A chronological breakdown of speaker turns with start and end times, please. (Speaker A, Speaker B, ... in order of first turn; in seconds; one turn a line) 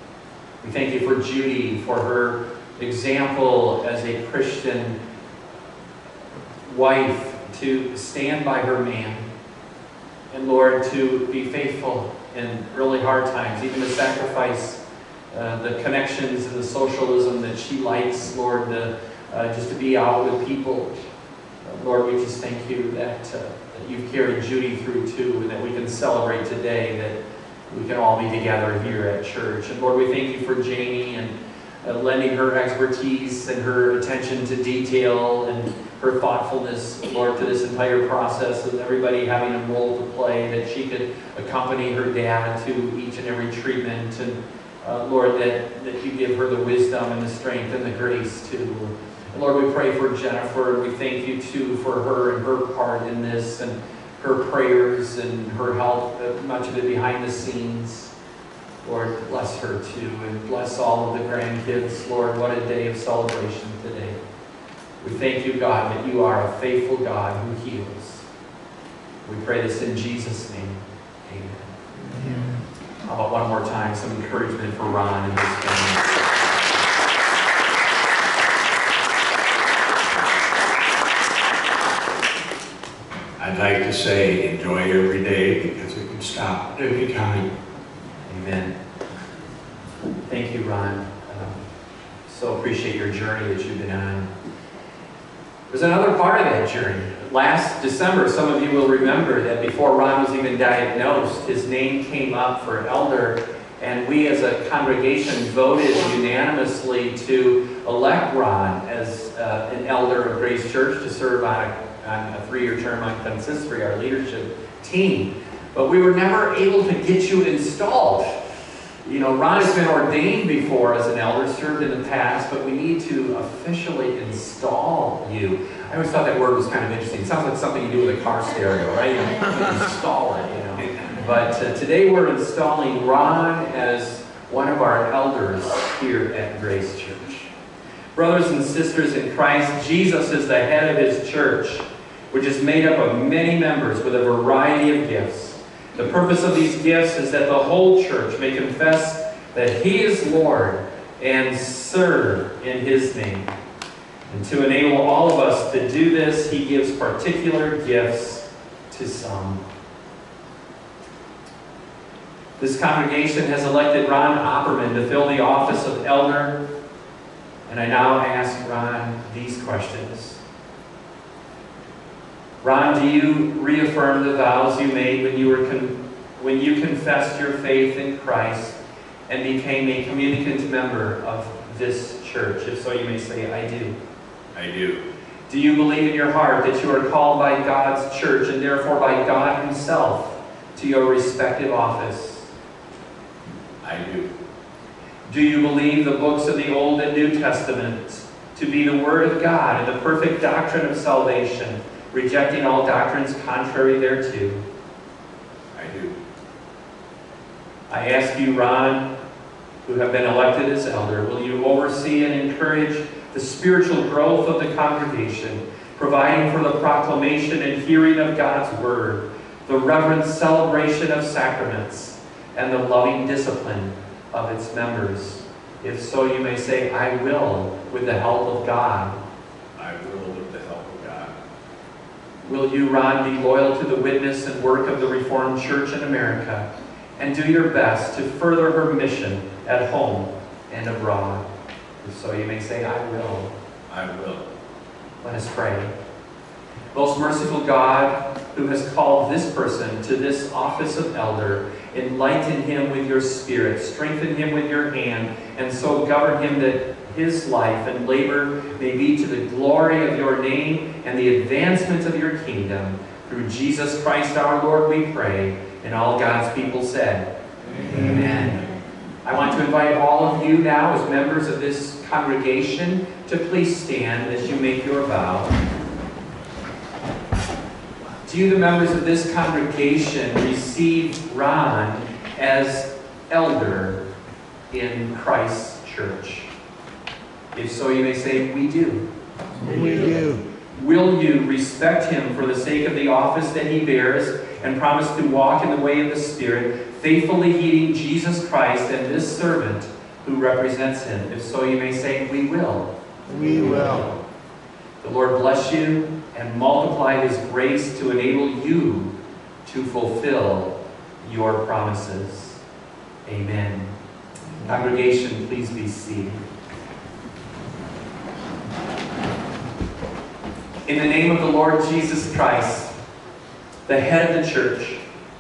Speaker A: 0.6-5.0
Speaker A: 6.7-9.3
Speaker A: 10.3-20.9
Speaker A: 21.6-27.2
Speaker A: 27.7-58.1
Speaker A: 58.8-64.2
Speaker A: 65.0-68.2
Speaker A: 69.2-71.8
Speaker A: 73.0-76.3
Speaker B: 83.4-87.5
Speaker A: 88.3-88.8
Speaker A: 90.3-91.6
Speaker A: 92.3-94.3
Speaker A: 95.7-118.4
Speaker A: 119.0-137.5
Speaker A: 138.2-153.5
Speaker A: 154.3-159.6
Speaker A: 162.6-166.6
Speaker A: 167.7-170.4
Speaker A: 172.6-178.8
Speaker A: 179.3-184.0
Speaker B: 184.6-185.1
Speaker A: 185.5-192.5
Speaker B: 193.8-194.4
Speaker A: 195.3-204.6
Speaker B: 205.7-206.2
Speaker A: 207.9-209.1
Speaker A: 209.8-229.2
Speaker B: 229.8-231.3
Speaker A: 232.4-241.4
Speaker A: 242.0-243.5
Speaker B: 243.9-244.5
Speaker A: 245.2-245.9
Speaker A: 246.9-267.3
Speaker A: 267.9-268.7
Speaker A: 269.2-275.5
Speaker A: 278.2-284.0
Speaker A: 284.7-286.5
Speaker A: 287.5-289.1
Speaker A: 289.7-304.2
Speaker A: 305.0-312.6
Speaker A: 313.2-313.9
Speaker A: 314.6-316.4
Speaker A: 320.9-322.9
Speaker A: 323.9-325.0